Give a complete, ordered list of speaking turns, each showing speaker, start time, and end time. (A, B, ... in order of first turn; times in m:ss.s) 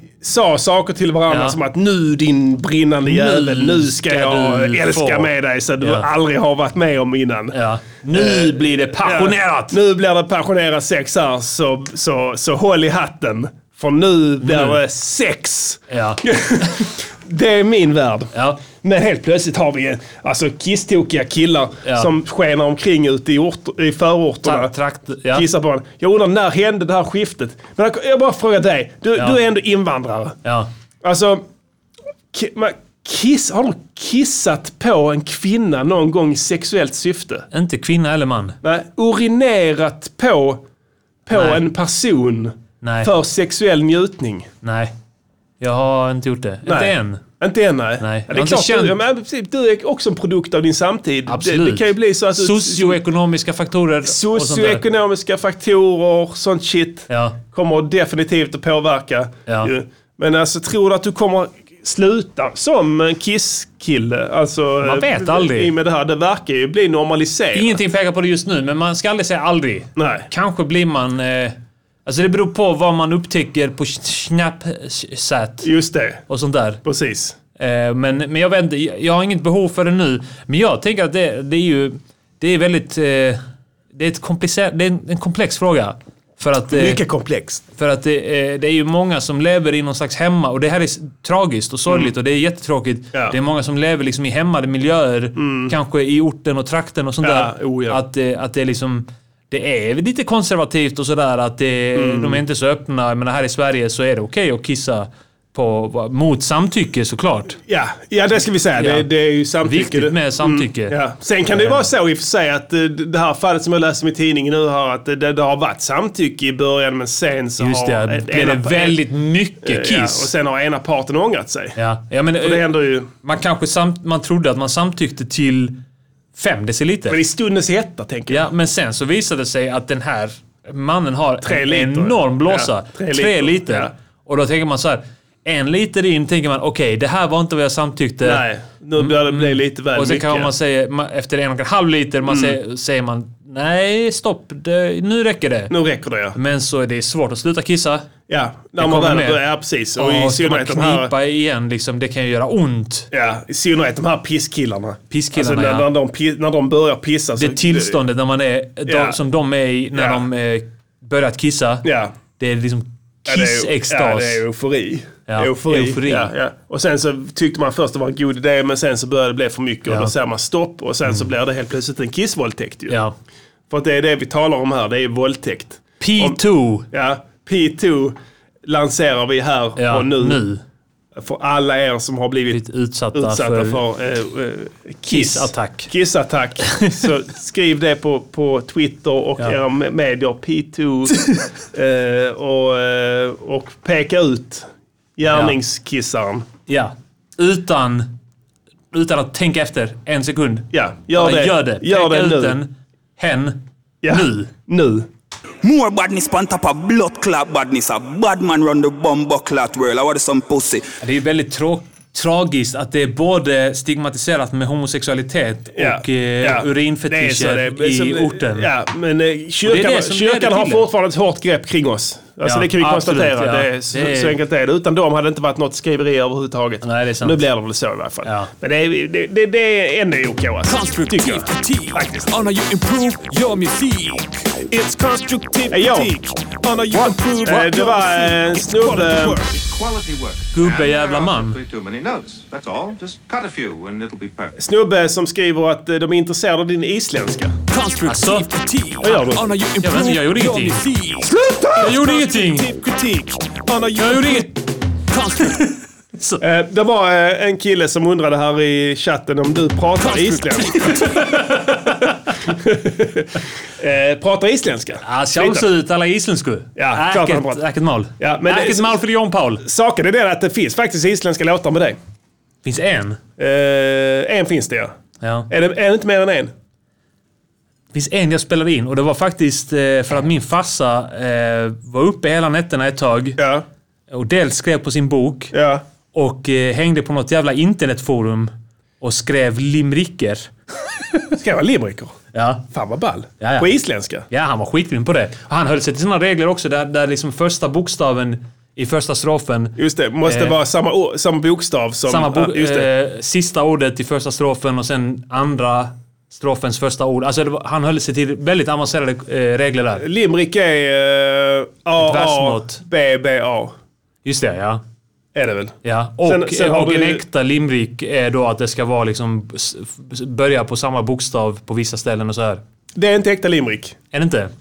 0:00.2-0:07.6 A
0:01.3-0:01.6 B
0:03.0-0:06.1 B
0:07.5-0:09.8 B
0:08.1-0:24.7 A
0:14.4-0:14.8 B
0:15.9-0:16.7 B
0:18.3-0:18.6 B
0:24.4-0:25.5 B
0:25.3-0:30.4 A
0:30.4-0:30.7 B
0:31.0-0:31.4 A
0:32.3-0:37.5 A
0:37.5-0:38.6 B
0:38.6-0:40.6 A
0:41.3-0:44.5 A
0:41.3-0:41.6 B
0:42.8-0:43.1 B
0:44.6-0:44.9 B
0:45.6-0:47.2 B
0:46.6-0:53.0 A
0:48.0-0:49.0 B
0:51.3-0:54.8 B
0:54.0-1:07.8 A
0:57.1-0:57.4 B
1:04.8-1:05.7 B
1:07.6-1:15.7 B
1:10.0-1:10.3 A
1:15.6-1:16.2 A
1:16.3-1:16.8 B
1:16.8-1:17.4 A
1:17.6-1:23.4 B
1:23.9-1:27.0 B
1:26.7-1:27.6 A
1:27.8-1:47.6 B
1:35.4-1:35.8 A
1:37.2-1:38.0 A
1:42.0-1:42.4 A
1:47.7-1:59.0 A
1:48.8-1:49.1 B
1:49.6-1:51.0 B
1:51.5-1:51.8 B
1:57.6-2:00.3 B
1:59.6-2:01.8 A
2:01.8-2:05.8 B
2:02.4-2:03.1 A
2:06.4-2:07.2 B
2:07.1-2:08.4 A
2:08.3-2:18.4 B
2:11.4-2:13.9 A
2:18.2-2:20.5 A
2:19.0-2:25.7 B
2:22.3-2:22.6 A
2:25.7-2:26.4 A
2:26.4-2:28.1 B
2:28.3-2:31.1 A
2:28.8-2:29.4 B
2:30.0-2:33.1 B
2:33.1-2:38.0 A
2:35.1-2:35.9 B
2:37.4-2:41.9 B
2:38.9-2:39.2 A
2:40.0-2:40.2 A
2:41.8-2:42.1 A
2:42.4-2:44.4 B
2:43.3-2:53.0 A
2:45.3-2:46.3 B
2:49.9-2:50.1 B
2:53.7-2:56.4 A
2:56.0-2:56.9 B
2:56.9-3:00.4 A
2:59.8-3:00.6 B
3:01.2-3:02.6 A
3:02.5-3:03.8 B
3:03.1-3:11.2 A
3:05.1-3:05.9 B
3:11.7-3:16.5 A
3:15.3-3:15.6 B
3:16.7-3:18.1 B
3:18.9-3:24.5 B
3:20.7-3:22.6 A
3:24.0-3:25.1 A
3:25.6-3:30.9 C
3:31.0-3:38.7 B
3:35.8-3:52.3 A
3:39.6-3:40.9 B
3:42.4-3:44.4 B
3:46.8-3:47.4 B
3:48.2-3:48.5 B
3:50.7-3:54.5 D
3:55.4-3:56.1 D
3:55.7-3:59.5 A
3:57.1-3:57.6 D
3:59.5-4:04.6 E
4:00.5-4:01.6 B
4:04.6-4:07.6 A
4:07.7-4:11.3 D
4:08.0-4:08.5 B
4:09.0-4:09.5 A
4:09.8-4:10.8 B
4:11.2-4:14.5 A
4:11.8-4:12.7 B
4:14.0-4:14.5 B
4:15.1-4:16.4 B
4:16.4-4:25.7 A
4:20.1-4:22.1 B
4:25.0-4:29.6 B
4:26.8-4:27.6 A
4:28.2-4:29.0 A
4:29.6-4:32.0 A
4:32.6-4:33.2 B
4:33.4-4:35.0 A
4:35.2-4:35.5 B
4:35.5-4:36.5 A
4:37.9-4:43.4 B
4:43.4-4:43.6 A
4:44.1-4:45.5 B
4:45.5-4:45.8 A
4:46.1-4:50.5 B
4:51.4-4:52.2 A
4:52.3-4:52.6 B
4:52.7-4:54.2 A
4:53.4-4:53.7 B
4:54.3-5:00.6 B
4:59.8-5:02.9 A
5:02.1-5:10.0 B
5:10.0-5:13.8 A
5:12.0-5:12.8 B
5:14.2-5:14.8 B
5:15.4-5:17.2 A
5:15.8-5:22.6 B
5:23.0-5:24.0 A
5:24.1-5:24.5 B